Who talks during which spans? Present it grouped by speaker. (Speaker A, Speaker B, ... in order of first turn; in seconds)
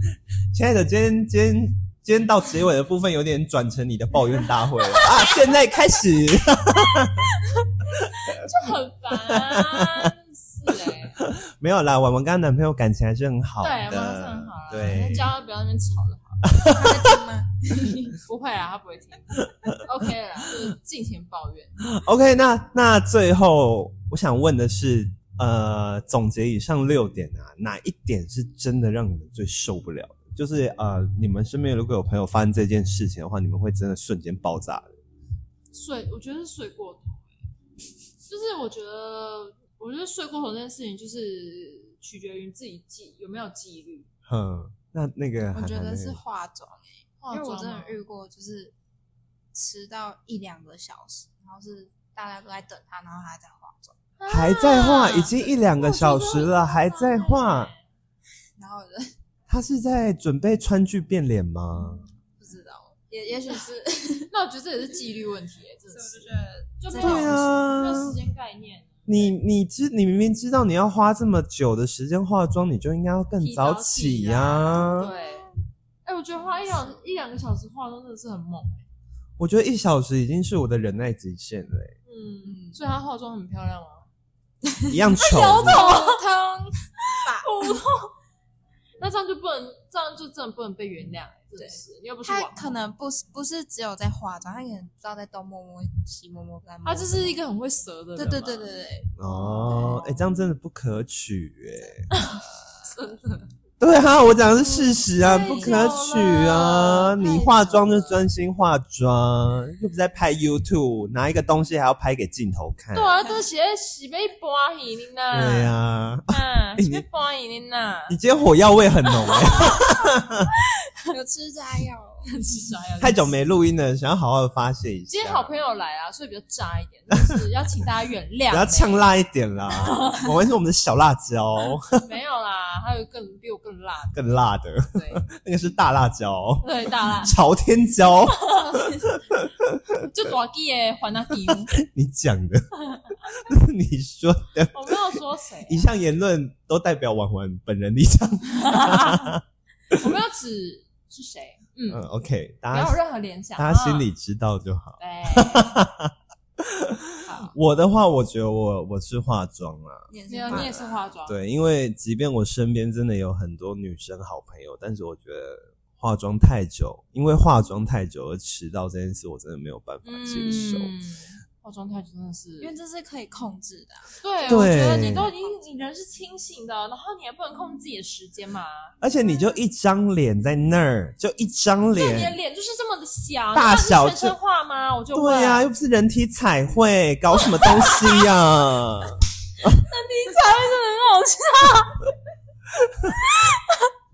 Speaker A: 0.5-7.3, 8.0-8.5, 9.3-10.1, 10.9-15.3, 16.5-17.2, 21.9-35.0, 44.3-46.2, 54.3-57.7, 59.5-62.0, 67.0-68.2, 69.1-75.1, 79.4-82.0, 84.9-85.8, 99.2-102.1, 103.8-113.2, 115.3-117.0, 118.1-120.5, 123.0-125.5, 127.1-127.4, 128.5-132.0, 134.1-139.8, 141.4-149.4, 151.9-153.0, 153.6-160.7, 161.3-170.9, 174.5-175.3, 179.0-182.4, 183.5-184.4, 185.1-189.8
Speaker B: 4.9-5.5, 6.6-11.2, 13.6-16.5, 18.1-21.9, 35.7-37.3, 38.3-44.1, 47.2-48.0, 54.2-57.9, 64.3-69.3, 73.4-75.5, 76.0-78.8, 82.1-84.1, 85.2-86.2, 87.2-88.1, 89.0-92.7, 96.8-98.7, 99.2-100.0, 102.1-103.5, 105.2-107.2, 112.9-115.8, 116.3-118.2, 119.1-119.8, 122.3-123.4, 125.1-129.1, 129.7-130.3, 132.0-134.2, 134.9-135.3, 136.6-137.4, 138.3-138.9, 140.0-141.8, 144.7-145.9, 148.5-149.4, 149.9-152.1, 152.7-154.1, 155.0-155.7, 157.2-157.6, 160.3-161.4, 170.0-172.7, 174.2-178.9, 181.9-185.7, 187.6-188.2, 189.7-192.1, 193.0-193.9
Speaker C: 16.7-18.2, 45.5-48.7, 49.5-54.0, 58.6-59.1, 62.2-64.3, 65.9-67.6, 74.8-75.5, 76.5-77.0, 82.5-82.8, 84.7-87.8, 91.6-97.4, 98.2-100.2, 101.8-102.9, 104.6-106.0, 106.8-108.2, 121.1-122.3, 160.1-161.1, 172.6-175.6